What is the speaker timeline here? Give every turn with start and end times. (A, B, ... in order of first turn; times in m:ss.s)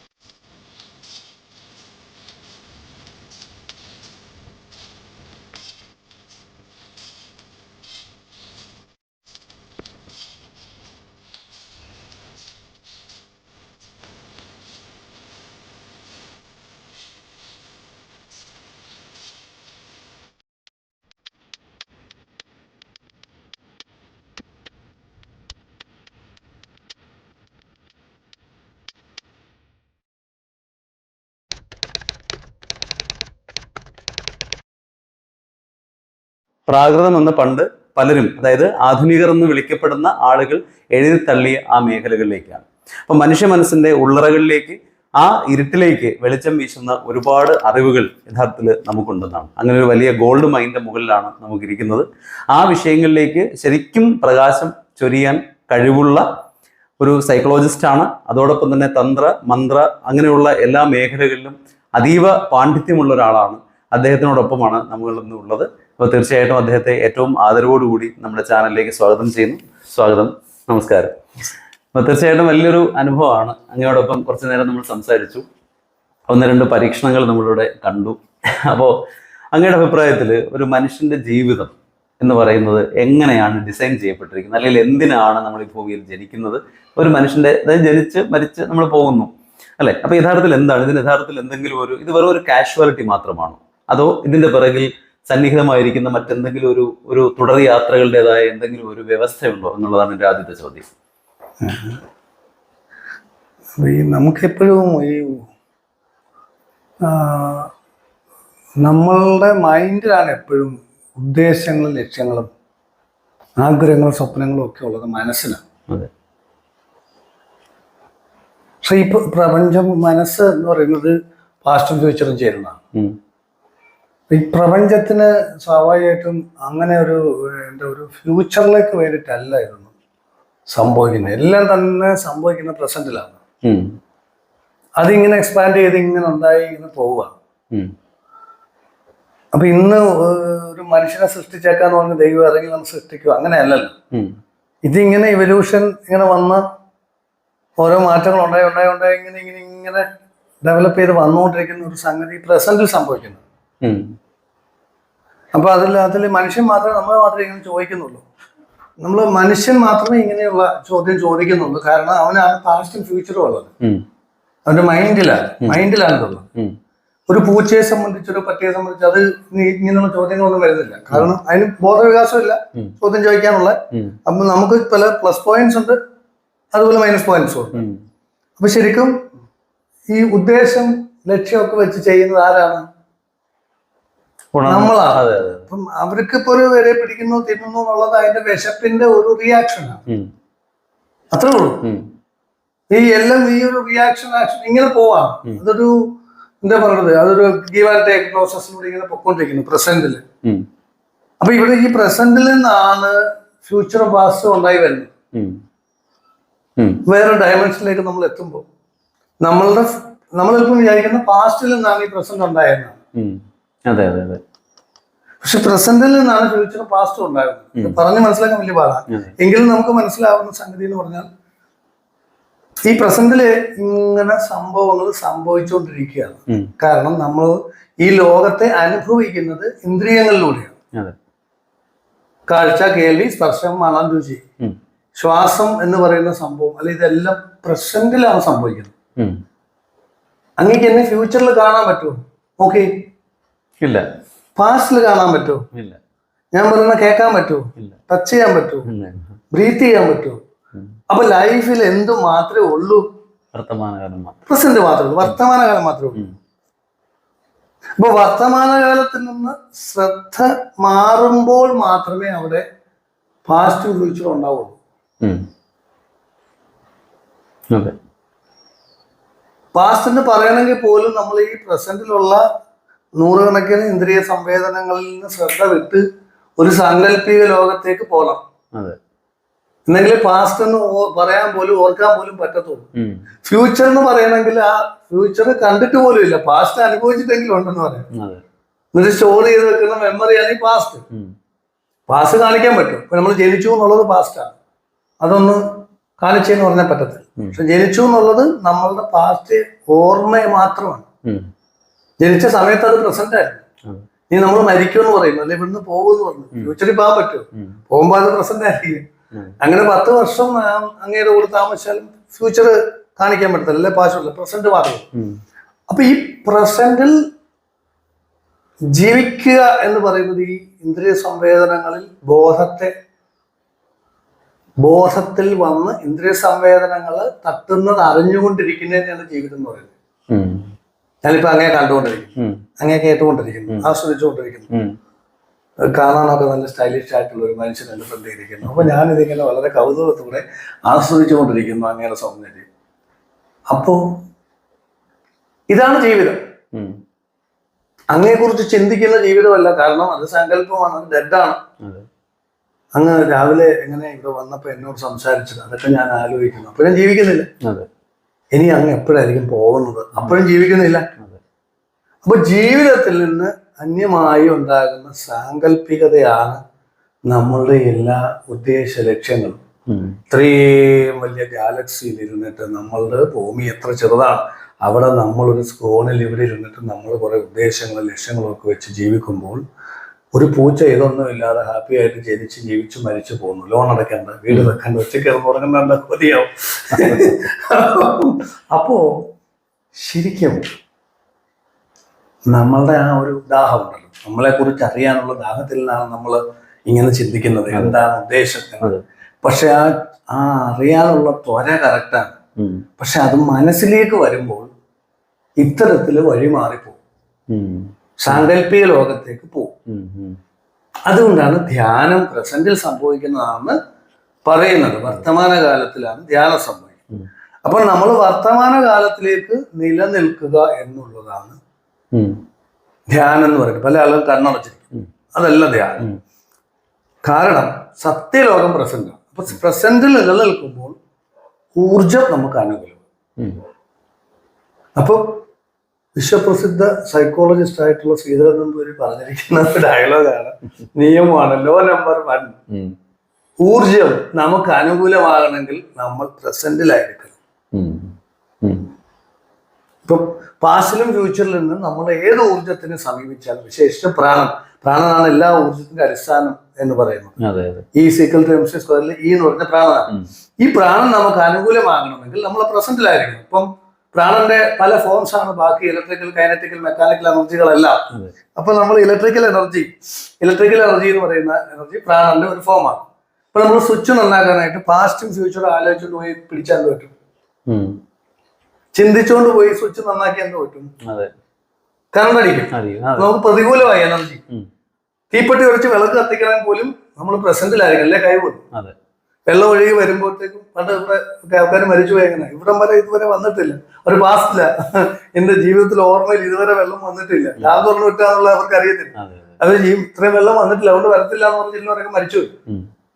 0:36.7-0:56.2 A
0:57.0-1:11.1 A
1:11.9-1:15.4 A
1:16.3-1:18.9 A
1:19.5-1:40.9 A
1:41.6-1:42.0 B
1:43.8-1:45.4 B
1:47.0-1:47.7 B
1:48.8-1:52.5 B
1:53.6-1:55.6 B
1:58.8-2:02.8 B
2:04.3-2:09.9 B
2:10.7-2:13.4 B
2:13.6-2:14.0 A
2:15.0-2:17.4 B
2:19.5-2:23.9 B
2:24.8-2:26.6 B
2:27.8-2:30.0 B
2:30.6-2:33.4 B
2:35.5-2:38.2 B
2:39.0-2:43.7 B
2:44.6-2:46.5 B
2:47.3-2:56.0 B
2:56.7-2:57.8 B
2:57.7-2:58.0 A
2:58.6-2:59.1 B
3:00.1-3:02.8 B
3:04.5-3:05.7 A
3:04.6-3:10.0 B
3:11.3-3:11.8 B
3:12.9-3:20.2 B
3:21.4-3:25.1 B
3:27.0-3:28.6 B
3:29.4-3:33.0 B
3:33.2-3:34.4 A
3:35.4-3:41.3 B
3:42.9-3:50.8 B
3:52.5-3:54.4 B
3:55.2-3:58.9 B
4:00.6-4:02.9 B
4:04.6-4:05.6 B
4:05.7-4:06.0 A
4:06.5-4:08.9 B
4:08.9-4:09.4 A
4:09.5-4:10.4 B
4:11.1-4:13.0 B
4:13.5-4:14.4 A
4:14.5-4:16.2 B
4:18.0-4:22.6 B
4:23.4-4:24.8 B
4:29.7-4:32.4 B
4:33.2-4:36.0 B
4:36.6-4:38.4 B
4:39.9-4:42.9 B
4:43.0-4:43.2 A
4:43.4-4:48.1 B
4:48.1-4:48.4 A
4:48.9-4:51.0 B
4:52.1-4:54.6 B
4:55.2-5:01.0 B
5:02.2-5:03.6 B
5:04.3-5:09.0 B
5:09.6-5:15.1 B
5:15.9-5:17.2 B
5:18.9-5:22.9 B
5:24.8-5:29.9 B
5:30.3-5:30.7 A
5:31.2-5:34.7 B
5:34.7-5:35.0 A
5:35.9-5:42.6 B
5:43.7-5:44.0 B
5:45.7-5:46.4 B
5:48.1-5:51.6 B
5:52.9-5:57.5 B
5:58.5-6:01.1 B
6:00.2-6:00.5 A
6:02.2-6:06.6 B
6:07.3-6:09.6 B
6:09.9-6:10.2 A
6:10.3-6:19.6 B
6:20.3-6:29.1 B
6:26.9-6:27.2 A
6:30.0-6:30.6 B
6:32.5-6:42.3 B
6:37.7-6:38.0 A
6:42.6-6:42.8 A
6:43.0-6:44.7 B
6:45.6-6:47.0 B
6:47.5-6:48.5 A
6:48.2-6:49.7 B
6:49.9-6:50.4 A
6:51.1-6:53.8 B
6:54.4-6:57.0 B
6:57.6-7:01.6 B
7:02.1-7:02.4 A
7:03.1-7:06.1 B
7:07.2-7:11.0 B
7:11.8-7:13.0 B
7:15.0-7:15.4 B
7:16.2-7:22.6 B
7:23.6-7:27.3 B
7:27.7-7:28.9 A
7:30.0-7:37.4 B
7:37.4-7:37.8 A
7:37.9-7:48.0 B
7:48.6-7:57.1 B
7:57.7-7:58.0 A
7:58.9-8:00.9 B
8:01.0-8:01.3 A
8:02.1-8:04.4 B
8:02.7-8:03.3 A
8:05.3-8:08.6 B
8:09.5-8:22.5 B
8:19.2-8:19.6 A